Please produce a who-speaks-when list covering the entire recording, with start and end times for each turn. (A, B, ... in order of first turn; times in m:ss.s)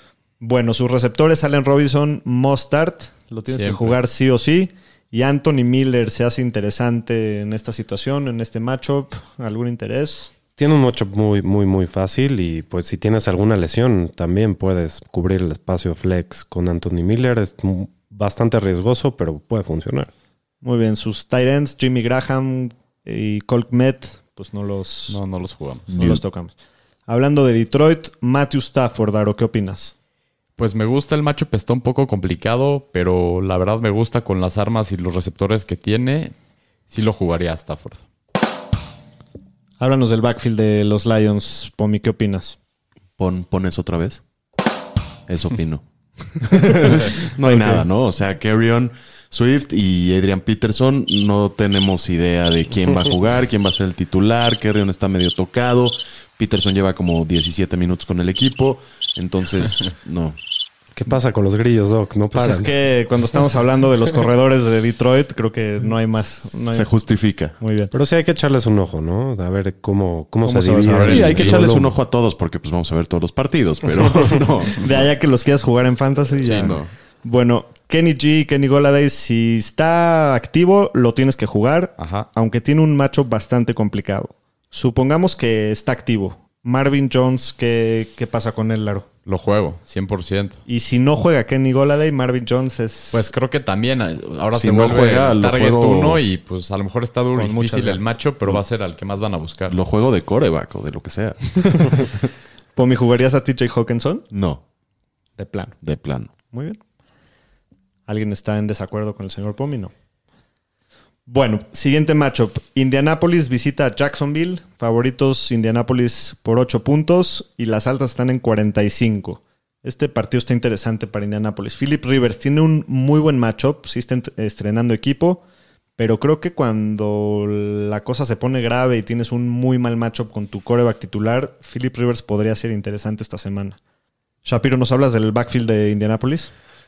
0:00.4-0:10.3 A
0:03.5-0:04.0 B
0:10.6-0:20.1 C
0:20.6-0:25.2 A
0:25.1-0:25.9 B
0:25.9-0:26.2 D
0:26.0-0:26.6 A
0:27.1-0:29.9 A
0:30.6-0:36.3 B
0:36.9-0:38.0 B
0:39.8-0:42.6 A
0:43.2-0:44.2 D
0:45.3-0:45.8 D
0:46.4-1:00.4 D
0:46.6-0:47.0 A
0:47.5-0:47.8 A
1:00.9-1:02.7 C
1:02.3-1:06.9 A
1:06.7-1:07.6 D
1:07.6-1:07.9 A
1:07.9-1:11.9 C
1:10.4-1:11.6 A
1:11.0-1:15.1 D
1:14.3-1:29.1 A
1:16.4-1:16.8 B
1:16.4-1:16.9 D
1:22.0-1:22.3 B
1:29.3-1:30.6 B
1:30.7-1:33.3 A
1:33.1-1:39.8 B
1:34.6-1:36.2 D
1:37.4-1:38.0 A
1:39.7-1:42.2 D
1:42.8-1:44.3 A
1:44.3-1:44.6 D
1:45.4-1:45.8 A
1:45.8-1:46.3 D
1:46.5-1:46.8 A
1:48.1-1:49.9 A
1:51.3-2:05.4 A
2:06.0-2:13.8 A
2:14.4-2:16.5 A